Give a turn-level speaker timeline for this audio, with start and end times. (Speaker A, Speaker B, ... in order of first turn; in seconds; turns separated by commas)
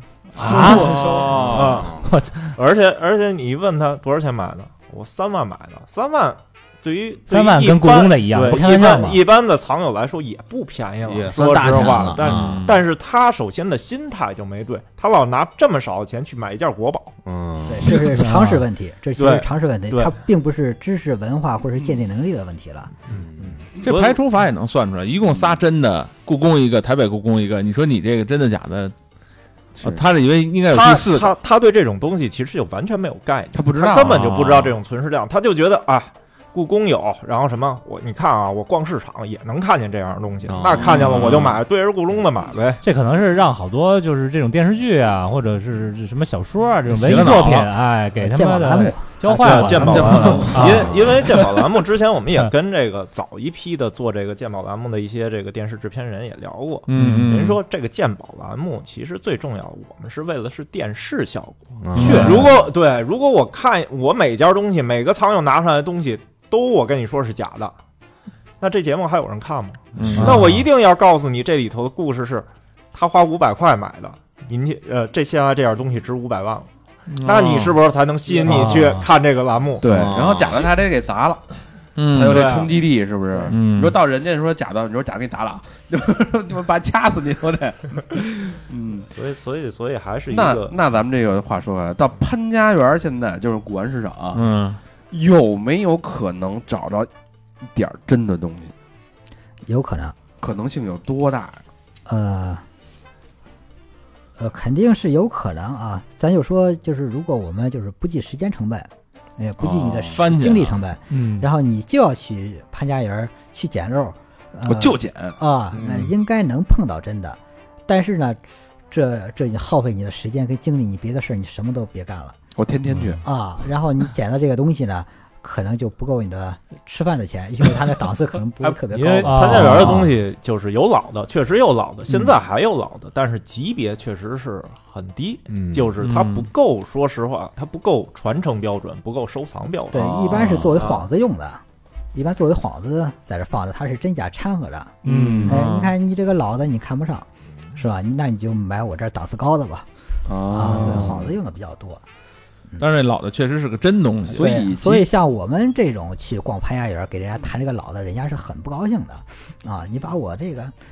Speaker A: 0.3-0.9, Speaker B: 0.4-1.7, Speaker C: 0.5-1.9, Speaker D: 1.2-2.0, Speaker E: 1.5-17.2, Speaker A: 2.0-2.5, Speaker A: 7.3-9.2, Speaker D: 11.1-12.7, Speaker C: 12.2-12.8, Speaker D: 17.2-17.9, Speaker F: 17.7-23.5, Speaker A: 17.9-18.7, Speaker E: 19.2-20.1, Speaker D: 23.1-23.9, Speaker C: 23.8-28.9, Speaker E: 23.8-24.2, Speaker C: 29.8-31.4, Speaker E: 30.7-42.8, Speaker B: 33.5-34.3, Speaker D: 40.5-41.0, Speaker C: 40.7-41.6, Speaker A: 42.8-50.9, Speaker C: 46.9-47.7, Speaker F: 48.2-50.5, Speaker E: 49.3-67.8, Speaker B: 50.1-51.6, Speaker C: 56.9-57.6, Speaker A: 56.9-57.3, Speaker D: 61.8-62.6, Speaker C: 62.0-62.5, Speaker A: 62.0-62.4, Speaker E: 68.6-76.7, Speaker C: 70.0-70.5, Speaker A: 70.1-70.7, Speaker C: 77.1-77.8, Speaker E: 77.2-79.9, Speaker A: 78.4-79.1, Speaker B: 79.8-81.4, Speaker D: 79.8-80.7, Speaker C: 82.0-82.5, Speaker B: 82.1-89.1, Speaker E: 82.2-82.8, Speaker C: 83.5-84.0, Speaker E: 89.1-90.8, Speaker B: 90.3-94.5, Speaker C: 94.3-94.8, Speaker B: 95.1-97.1, Speaker B: 97.7-98.7, Speaker F: 99.7-100.2, Speaker B: 100.4-101.6, Speaker F: 102.1-102.6, Speaker F: 104.4-122.4, Speaker B: 109.6-110.2, Speaker C: 110.1-110.8, Speaker A: 111.1-111.5, Speaker B: 114.7-115.4, Speaker D: 115.7-116.1, Speaker B: 122.6-123.2, Speaker F: 123.2-129.7, Speaker E: 128.9-140.2, Speaker A: 128.9-130.0, Speaker D: 129.7-130.1, Speaker D: 135.5-136.0, Speaker C: 136.0-136.5, Speaker F: 139.9-141.6, Speaker D: 140.3-140.8, Speaker F: 142.1-149.9, Speaker A: 145.0-145.6, Speaker C: 145.2-145.9, Speaker B: 150.3-151.3, Speaker F: 150.4-152.0, Speaker D: 150.9-151.3, Speaker C: 152.8-154.5, Speaker B: 154.3-155.1, Speaker F: 154.3-160.7